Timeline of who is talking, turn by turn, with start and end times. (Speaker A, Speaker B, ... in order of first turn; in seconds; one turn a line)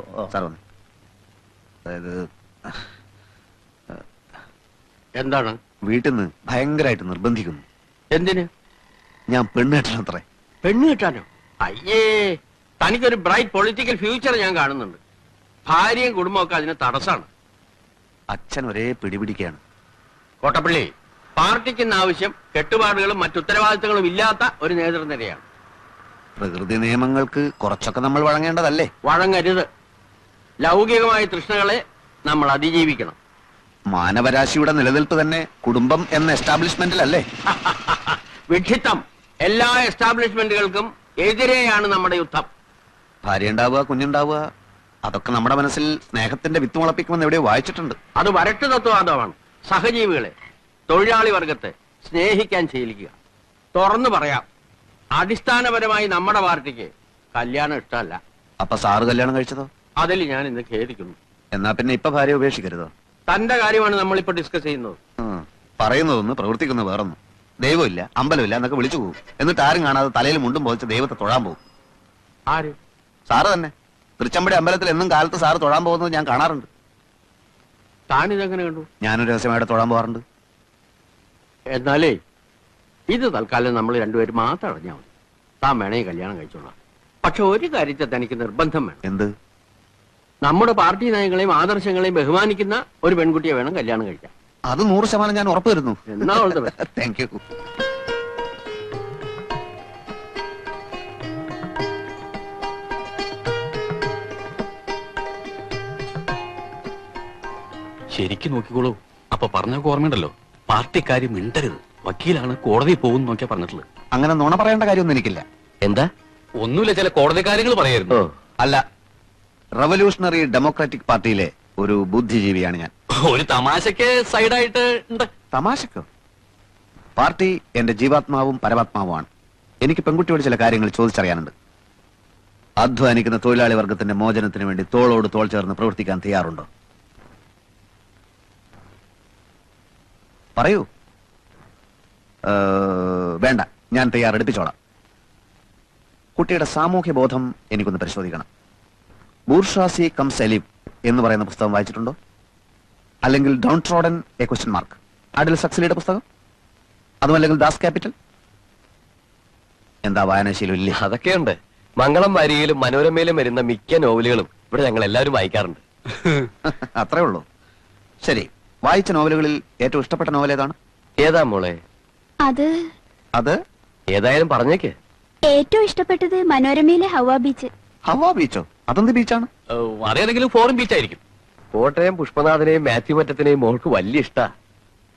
Speaker A: 0.3-0.6
Speaker A: 1.9-2.8
Speaker B: 5.2-5.6
Speaker A: 5.9-7.6
Speaker B: 8.1-8.5
Speaker A: 9.3-10.2
Speaker B: 10.6-15.0
Speaker B: 15.7-17.3
Speaker A: 18.3-19.6
Speaker B: 20.4-25.4
Speaker A: 26.4-28.9
Speaker B: 29.0-29.7
Speaker B: 30.6-33.2
Speaker A: 33.9-37.2
Speaker B: 37.6-42.5
Speaker A: 43.2-44.4
Speaker A: 45.0-48.0
Speaker B: 48.2-50.3
Speaker B: 50.9-53.1
Speaker B: 53.8-54.5
Speaker B: 55.2-58.2
Speaker A: 58.6-59.7
Speaker B: 60.0-61.2
Speaker A: 61.5-62.9
Speaker B: 63.3-65.0
Speaker A: 65.2-71.6
Speaker B: 72.5-72.8
Speaker A: 73.3-76.7
Speaker B: 78.1-78.9
Speaker A: 79.0-80.2
Speaker B: 81.7-82.2
Speaker B: 83.1-85.1
Speaker B: 85.6-89.0
Speaker A: 89.0-89.3
Speaker B: 90.4-94.3
Speaker A: 94.7-97.4
Speaker B: 96.1-96.7
Speaker C: 108.1-113.8
Speaker A: 114.1-115.4
Speaker C: 116.6-118.2
Speaker A: 119.8-122.9
Speaker C: 123.2-125.3
Speaker A: 125.5-126.1
Speaker A: 127.2-129.3
Speaker A: 129.8-131.5
Speaker A: 132.8-136.7
Speaker A: 140.6-140.9
Speaker A: 142.5-144.7
Speaker A: 146.4-148.4
Speaker A: 149.5-152.2
Speaker A: 153.3-156.2
Speaker A: 157.2-158.1
Speaker A: 160.1-161.0
Speaker D: 161.0-165.8
Speaker A: 166.7-167.4
Speaker A: 168.2-170.8
Speaker D: 171.2-171.8
Speaker E: 172.4-172.8
Speaker D: 174.1-174.9
Speaker E: 175.5-177.7
Speaker A: 178.1-179.5
Speaker C: 179.7-181.2
Speaker D: 181.8-184.5